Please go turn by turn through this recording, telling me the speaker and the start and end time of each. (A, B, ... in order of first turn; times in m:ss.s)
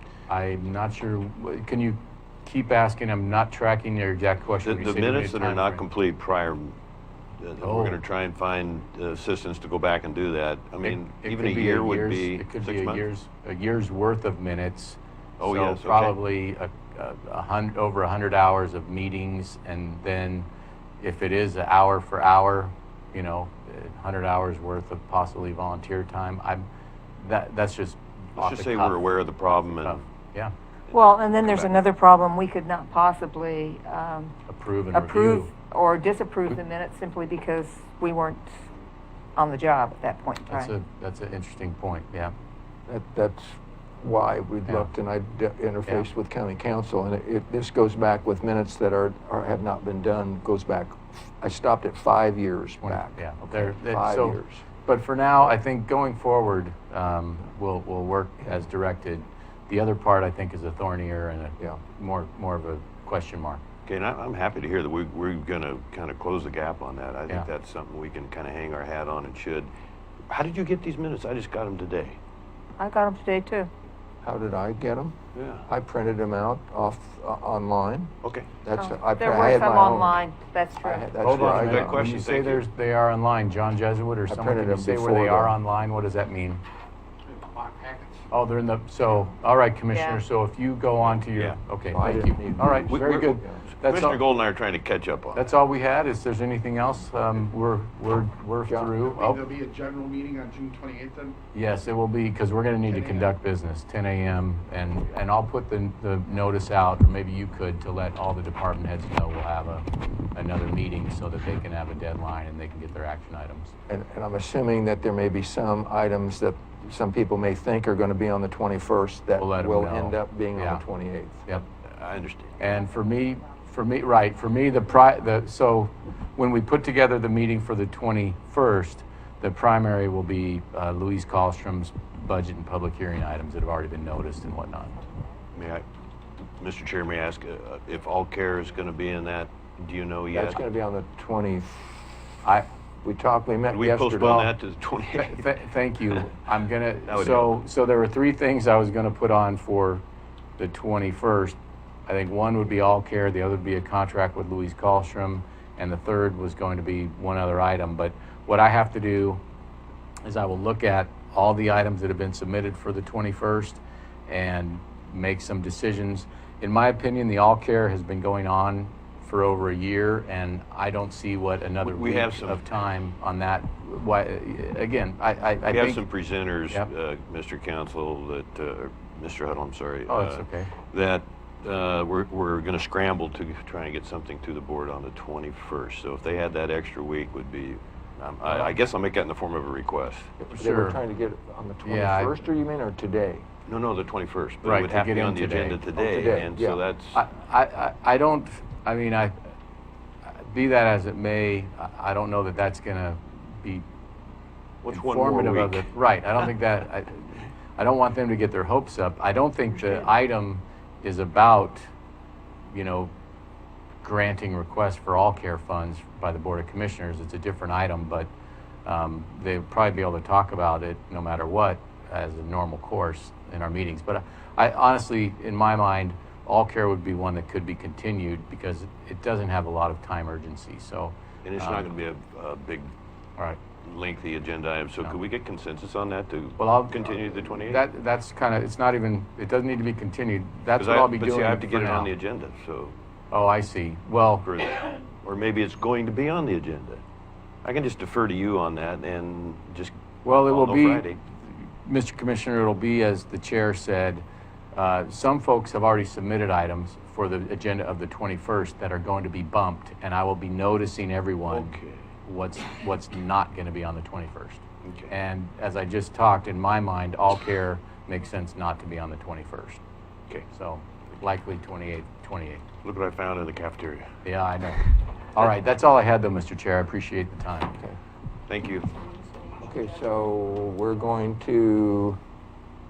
0:00.3-0:05.8 A
0:04.6-0:06.8 B
0:07.4-0:13.0 B
0:07.6-0:08.0 A
0:10.8-0:20.5 A
0:15.4-0:16.2 B
0:21.0-0:26.6 A
0:27.2-0:30.5 A
0:28.4-0:30.0 B
0:30.9-0:34.4 C
0:30.9-0:31.7 B
0:34.5-0:35.5 A
0:34.9-0:38.5 C
0:39.4-0:40.7 C
0:40.5-0:42.3 A
0:42.9-0:54.6 D
0:52.8-1:03.7 A
1:03.8-1:09.7 B
1:10.3-1:12.2 B
1:12.8-1:13.7 C
1:14.2-1:18.1 D
1:15.4-1:15.6 B
1:18.2-1:18.6 B
1:18.6-1:20.2 D
1:18.8-1:21.4 C
1:20.8-1:22.0 D
1:21.2-1:26.6 A
1:21.3-1:22.6 B
1:24.3-1:25.6 D
1:27.5-1:28.1 E
1:28.3-1:34.2 A
1:29.9-1:30.2 C
1:31.3-1:31.6 B
1:31.9-1:33.6 D
1:32.8-1:35.4 B
1:35.4-1:39.5 A
1:38.7-1:38.9 D
1:39.2-1:41.4 E
1:41.5-1:53.7 A
1:53.9-2:01.4 D
1:59.4-2:00.8 A
2:01.8-2:02.6 B
2:02.6-2:14.9 A
2:15.5-2:15.8 B
2:16.6-2:20.6 B
2:20.3-2:22.0 D
2:23.0-2:24.5 D
2:23.7-2:25.5 B
2:25.1-2:30.0 A
2:27.1-2:27.5 B
2:30.6-2:31.6 A
2:32.1-2:39.4 A
2:40.2-2:56.0 A
2:51.8-2:52.6 B
2:55.7-3:10.4 B
3:00.1-3:00.8 A
3:08.5-3:08.7 A
3:10.4-3:13.5 D
3:10.5-3:11.0 A
3:11.8-3:12.4 A
3:13.7-3:17.2 B
3:14.6-3:15.9 A
3:16.0-3:16.8 D
3:17.1-3:19.3 A
3:20.3-3:23.9 A
3:24.8-3:25.9 B
3:24.9-3:31.9 A
3:32.7-3:33.1 A
3:34.0-3:38.3 A
3:38.9-3:51.9 A
3:51.4-3:52.9 B
3:53.4-3:53.6 A
3:53.7-3:57.8 B
3:56.6-4:02.1 A
4:00.8-4:03.0 B
4:03.3-4:04.5 A
4:04.4-4:07.0 B
4:07.6-4:11.2 B
4:10.2-4:29.8 A
4:21.5-4:22.1 B
4:30.5-4:32.7 A
4:32.8-4:34.2 B
4:34.2-4:37.8 A
4:38.5-4:39.0 B
4:39.2-4:39.5 C
4:39.6-4:42.2 D